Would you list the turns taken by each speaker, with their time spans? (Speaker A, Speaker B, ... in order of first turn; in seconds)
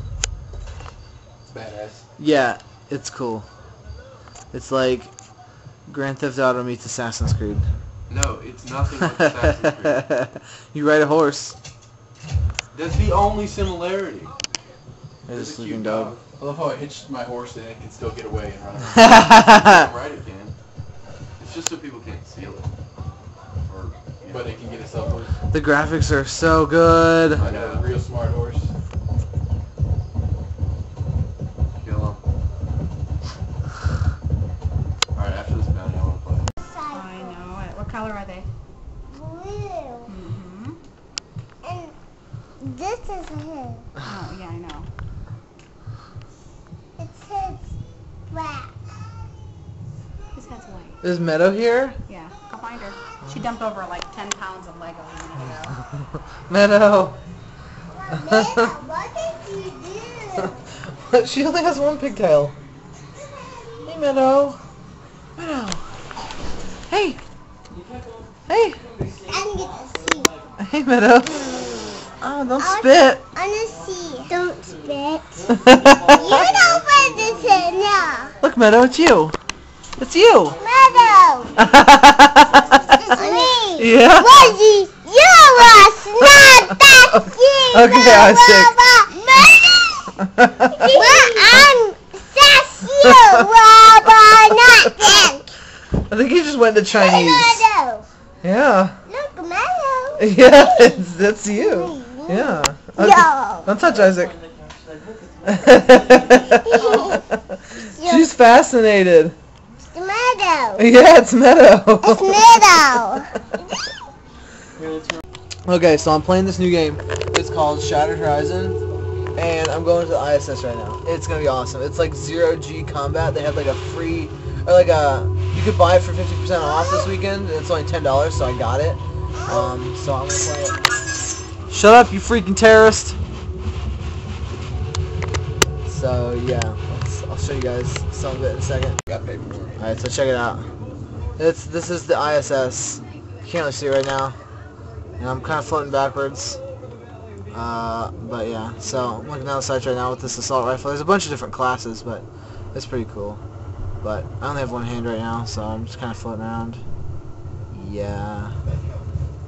Speaker A: 1.5-2.0, 16.4-19.1, 24.3-25.3, 27.5-28.7
Speaker B: 2.2-3.4, 4.5-5.1, 5.9-7.7, 9.0-11.5, 15.3-16.1, 18.9-19.8, 25.5-27.4, 51.0-52.0, 56.5-57.2, 61.0-62.5, 63.8-64.6, 65.4-65.8, 66.9-67.2, 68.5-68.8, 70.6-73.2, 75.6-76.3, 78.4-79.3, 80.0-80.6, 81.6-82.8, 83.8-84.5, 85.8-86.5, 87.7-88.8, 90.2-91.0, 96.1-97.7, 98.4-98.9, 100.2-104.3, 105.5-107.4, 108.0-109.3, 110.8-113.0, 115.7-118.8, 119.3-130.8, 131.7-133.2, 135.8-139.0, 139.8-140.7, 141.4-144.3, 145.2-146.6, 147.5-153.4, 154.0-156.8, 157.7-158.5
Speaker C: 8.1-10.1, 12.7-14.3, 15.3-16.3, 19.0-20.5, 21.4-22.7, 23.7-24.8, 27.4-28.0, 31.8-32.2, 35.1-36.5, 139.1-139.7
Speaker D: 36.6-37.4, 39.1-40.1, 41.6-41.9, 42.6-43.9, 47.0-47.7, 48.3-48.7, 57.9-60.5, 63.2-64.0, 69.2-70.3, 72.6-78.4, 80.6-81.6, 83.0-90.1, 90.8-95.5, 96.9-98.1, 99.0-103.7, 106.7-107.2, 107.9-108.3, 109.9-110.8, 112.0-113.3, 126.6-127.0, 129.3-129.7
Speaker E: 36.9-38.5, 40.1-40.8, 44.0-44.9, 50.3-51.0, 52.1-55.8, 82.9-83.5, 90.9-91.3